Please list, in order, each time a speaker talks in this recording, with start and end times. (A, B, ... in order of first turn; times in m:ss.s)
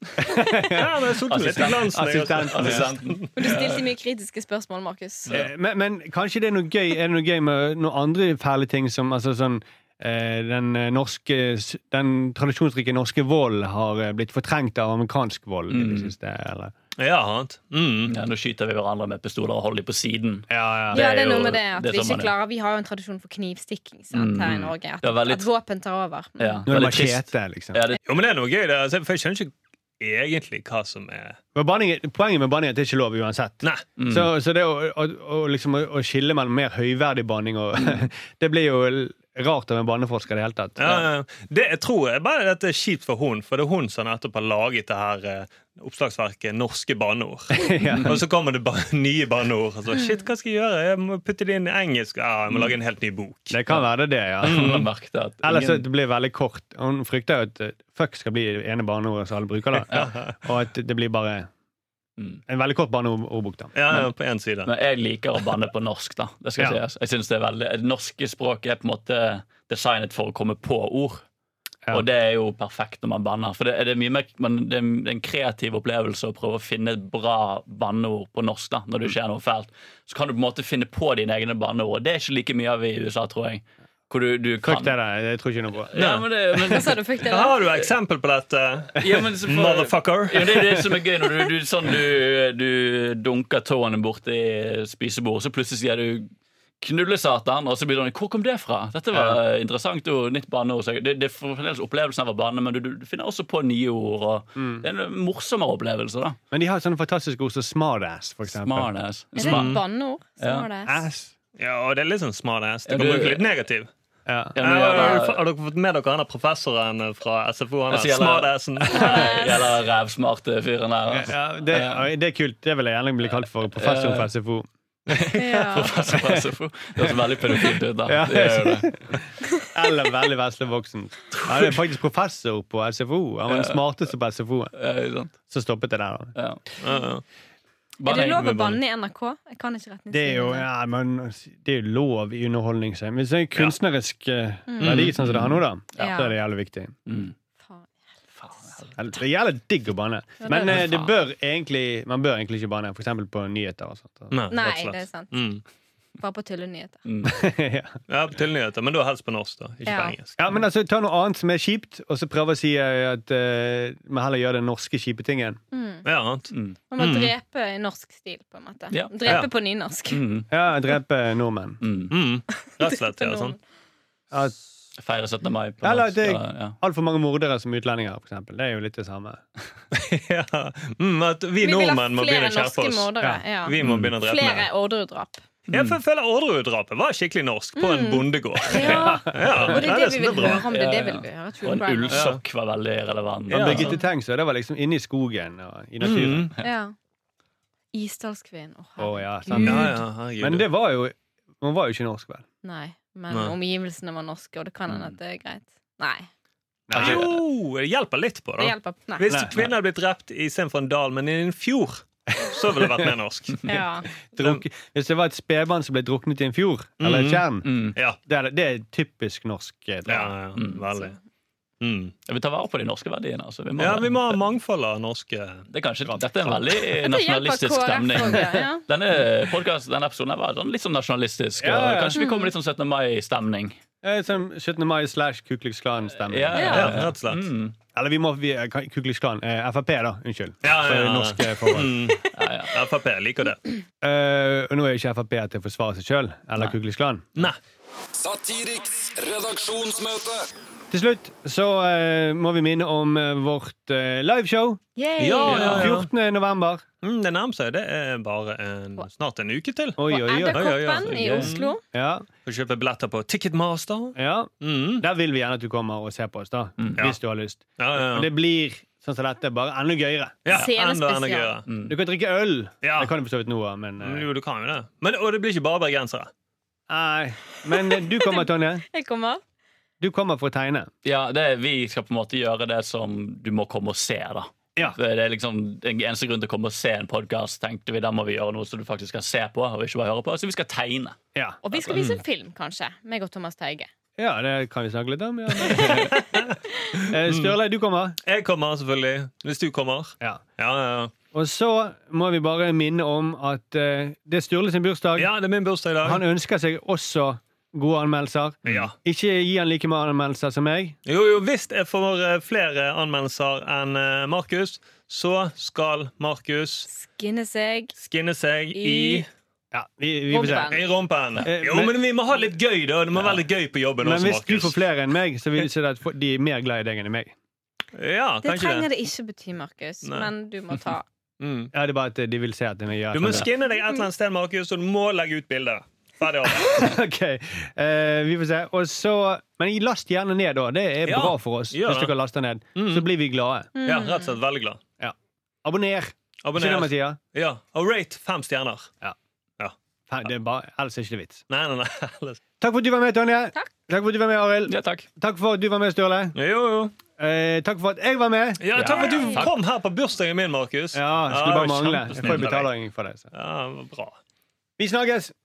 0:00.2-0:00.9 A
0:00.7-0:03.3 B
0:01.3-0:03.8 C
0:01.6-0:02.9 A
0:03.4-0:05.3 D
0:05.3-0:16.7 A
0:15.7-0:16.1 C
0:17.0-0:18.1 B
0:18.1-0:22.3 C
0:20.5-0:21.0 A
0:20.9-0:26.6 D
0:24.1-0:25.5 C
0:26.4-0:28.0 C
0:26.7-0:27.8 A
0:28.0-0:31.4 B
0:31.5-0:41.0 A
0:34.0-0:34.3 C
0:40.8-0:53.6 B
0:47.5-0:48.2 A
0:53.5-0:54.8 A
0:54.4-0:55.8 C
0:54.4-0:54.8 B
0:55.4-1:01.5 A
0:59.9-1:00.3 B
1:02.5-1:03.7 A
1:03.7-1:04.7 B
1:04.6-1:11.2 C
1:11.9-1:25.0 C
1:24.6-1:25.9 A
1:25.9-1:27.0 C
1:25.9-1:30.7 B
1:26.6-1:27.7 D
1:27.6-1:27.9 C
1:29.0-1:36.3 C
1:36.8-1:46.4 C
1:39.1-1:39.4 A
1:44.6-1:44.8 A
1:46.5-1:48.9 A
1:48.4-1:49.8 C
1:49.4-1:51.0 D
1:49.4-1:49.8 B
1:50.4-1:50.7 C
1:50.8-1:51.3 A
1:51.6-1:53.9 B
1:52.9-1:53.5 C
1:54.3-1:54.5 A
1:54.5-1:55.4 C
1:54.6-1:59.3 B
1:57.9-2:02.0 C
1:58.9-1:59.6 D
2:01.1-2:06.4 A
2:03.8-2:04.3 C
2:05.1-2:08.9 C
2:05.4-2:06.0 D
2:07.0-2:14.7 A
2:11.4-2:11.7 C
2:13.5-2:13.8 C
2:14.7-2:15.3 C
2:15.5-2:16.3 A
2:16.3-2:16.6 C
2:16.8-2:17.2 B
2:16.9-2:17.2 D
2:18.0-2:18.8 C
2:18.0-2:20.7 D
2:20.1-2:27.0 A
2:24.7-2:25.0 D
2:24.8-2:25.1 B
2:25.2-2:26.0 C
2:26.0-2:26.4 D
2:27.1-2:27.3 C
2:27.6-2:27.9 D
2:28.4-2:28.9 C
2:29.0-2:34.4 A
2:30.4-2:30.8 D
2:30.6-2:31.1 C
2:34.3-2:35.6 B
2:34.5-2:35.5 D
2:36.2-2:37.0 D
2:37.0-2:37.3 C
2:37.2-2:37.9 A
2:38.1-2:40.4 B
2:39.8-2:40.2 D
2:40.4-2:45.6 A
2:45.7-2:46.1 D
2:46.0-2:47.3 B
2:46.5-2:46.8 C
2:46.9-2:50.2 D
2:48.9-2:49.5 C
2:50.1-2:50.5 C
2:50.5-2:51.8 A
2:51.8-2:52.1 C
2:52.1-2:53.6 B
2:52.8-2:53.6 D
2:55.0-2:56.8 C
2:55.8-2:59.4 A
2:59.9-3:03.1 B
3:01.6-3:05.4 D
3:03.6-3:04.7 B
3:03.8-3:04.1 C
3:05.7-3:10.6 B
3:07.8-3:12.3 D
3:09.0-3:09.7 A
3:10.7-3:13.9 C
3:12.1-3:12.4 B
3:13.5-3:14.0 B
3:13.5-3:16.5 A
3:16.0-3:16.5 B
3:16.6-3:16.9 D
3:17.9-3:20.0 D
3:19.0-3:22.4 A
3:19.5-3:20.6 B
3:22.6-3:26.3 D
3:23.3-3:23.6 B
3:26.9-3:27.3 A
3:26.9-3:33.7 B
3:27.0-3:27.3 C
3:28.6-3:29.3 D
3:29.3-3:29.7 A
3:33.6-3:34.1 D
3:34.3-3:37.7 A
3:34.4-3:34.6 B
3:37.0-3:37.4 B
3:37.6-3:38.0 C
3:38.2-3:40.3 A
3:40.1-3:41.2 B
3:40.6-3:40.8 C
3:40.8-3:41.1 D
3:41.8-3:42.1 B
3:42.3-3:44.4 C
3:43.8-3:45.6 B
3:45.7-3:53.8 C
3:47.0-3:48.8 D
3:51.6-3:52.2 A
3:52.1-3:52.5 D
3:54.0-3:56.9 A
3:56.2-3:57.8 C
3:56.5-3:57.0 D
3:56.6-3:57.4 B
3:57.9-4:02.0 A
4:00.6-4:03.6 B
4:02.3-4:02.7 C
4:04.0-4:07.3 A
4:08.1-4:10.4 E
4:10.9-4:14.8 A
4:15.0-4:15.9 D
4:15.2-4:16.1 B
4:15.4-4:16.8 A
4:15.5-4:15.9 C
4:17.0-4:21.7 B
4:20.0-4:20.7 A
4:20.0-4:21.8 D
4:21.1-4:21.5 C
4:21.9-4:22.2 A
4:22.4-4:25.0 B
4:24.1-4:30.5 A
4:27.8-4:28.3 B
4:30.4-4:31.6 B
4:30.5-4:31.6 D
4:31.7-4:31.9 C
4:31.9-4:34.3 A
4:32.8-4:33.1 B
4:34.0-4:36.3 B
4:36.9-4:38.8 A
4:37.7-4:39.4 D
4:40.0-4:40.9 A
4:41.0-4:51.2 C
4:51.3-4:51.6 A
4:51.6-4:53.9 D
4:51.9-4:52.2 B
4:54.2-4:56.2 A
4:55.6-4:56.6 B
4:57.1-4:58.2 A
4:57.3-4:57.5 B
4:58.2-5:01.1 B
5:01.3-5:05.3 A
5:05.2-5:06.2 B
5:06.0-5:11.0 A
5:08.6-5:08.9 B
5:11.0-5:16.9 B
5:16.9-5:17.9 D
5:18.0-5:19.3 B
5:18.7-5:19.3 D
5:19.7-5:20.8 A
5:20.3-5:20.8 D
5:20.7-5:24.8 B
5:21.4-5:22.0 A
5:24.0-5:27.3 A
5:27.9-5:28.9 B
5:28.4-5:31.0 D
5:30.0-5:30.3 B
5:31.4-5:31.7 B
5:31.7-5:33.5 A
5:33.1-5:36.9 B
5:36.5-5:43.7 A
5:41.0-5:42.1 B
5:42.8-5:43.0 B
5:43.7-5:44.4 D
5:43.8-5:44.8 B
5:45.0-5:47.2 A
5:46.4-5:48.9 B
5:50.1-5:51.4 A
5:51.5-5:52.4 B
5:52.6-5:56.4 A
5:54.7-5:55.0 C
5:56.3-5:56.9 B
5:57.2-5:58.6 A
5:58.6-6:02.7 B
5:58.7-5:59.5 C
5:58.8-5:59.4 D
6:00.9-6:03.3 A
6:03.3-6:04.2 B
6:04.8-6:05.3 A